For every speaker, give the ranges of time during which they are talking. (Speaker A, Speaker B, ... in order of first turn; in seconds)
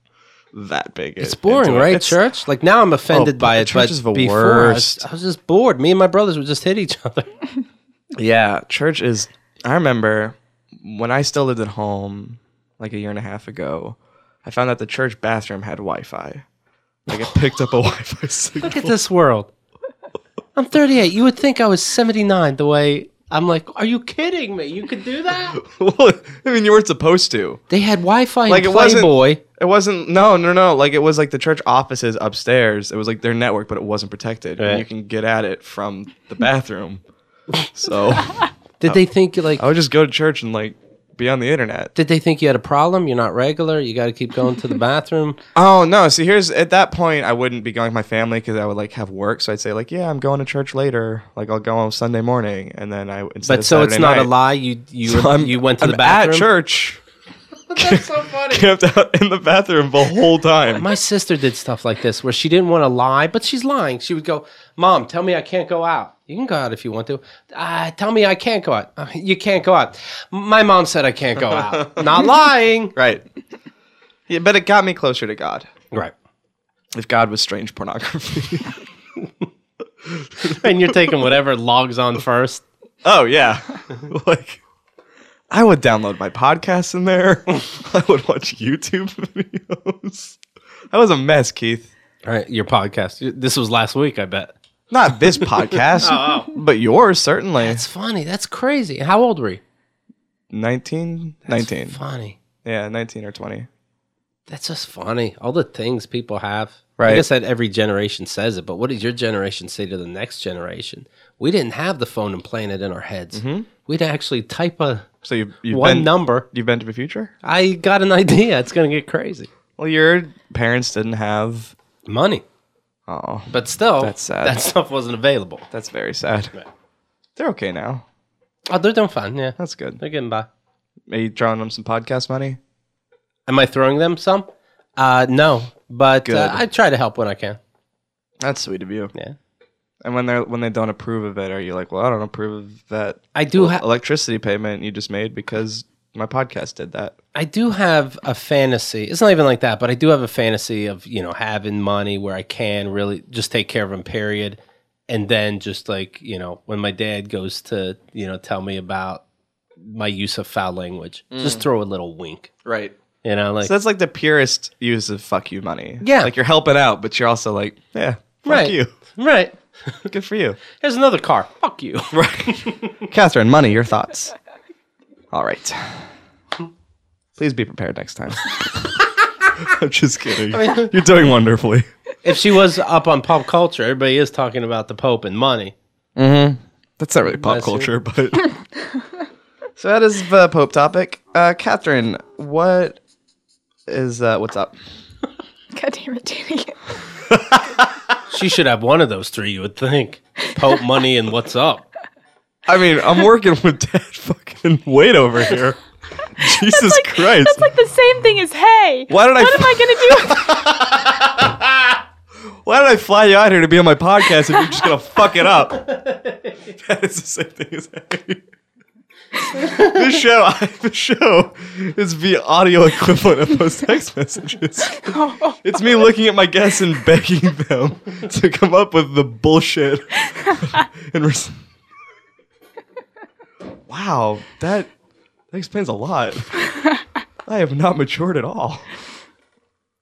Speaker A: 0.5-2.2, 3.1-5.0, 8.2-16.4, 17.1-18.9, 25.5-27.6, 28.5-37.0, 37.6-39.0, 39.5-41.9, 45.5-54.3, 55.0-57.0, 57.8-60.9, 71.5-72.2, 72.9-73.2, 74.3-75.7, 76.9-78.8, 80.0-81.1, 83.0-84.6, 85.5-90.4, 90.9-91.9, 94.9-97.8, 100.5-102.0, 102.6-103.7, 107.0-107.2, 113.3-113.7, 115.2-117.3, 119.8-121.7, 123.1-124.6, 125.7-126.5, 127.3-128.0, 129.6-130.0, 131.1-132.6, 136.2-136.6, 138.4-139.1, 140.0-147.2, 161.3-161.7, 162.6-162.9, 163.6-168.9, 170.1-170.6, 172.1-174.3, 175.3-176.1, 177.4-178.9, 179.6-181.9, 186.2-188.5, 189.8-193.0, 193.9-194.8, 197.3-197.9, 202.7-205.8, 206.3-207.7, 209.1-211.9, 212.6-215.8, 216.8-218.4, 219.6-231.6, 233.9-234.9, 235.5-236.9, 237.4-238.9
Speaker B: 1.2-7.3, 18.6-19.5, 20.5-25.6, 27.7-29.4, 34.6-34.8, 38.8-39.6, 42.0-45.4, 53.4-56.5, 57.7-58.7, 60.7-72.9, 80.4-82.6, 92.2-94.5, 96.0-96.5, 97.6-99.6, 101.5-102.4, 104.5-115.1, 115.7-116.5, 117.4-119.5, 122.0-122.4, 123.5-125.6, 128.7-130.5, 133.5-134.5, 135.0-137.6, 143.3-143.8, 147.3-159.2, 159.8-162.5, 163.2-163.7, 166.0-166.3, 168.4-170.1, 170.7-173.0, 180.5-181.0, 182.2-185.7, 187.3-187.9, 198.3-201.8, 215.7-216.7
Speaker C: 195.7-196.8, 206.4-210.6, 224.9-226.0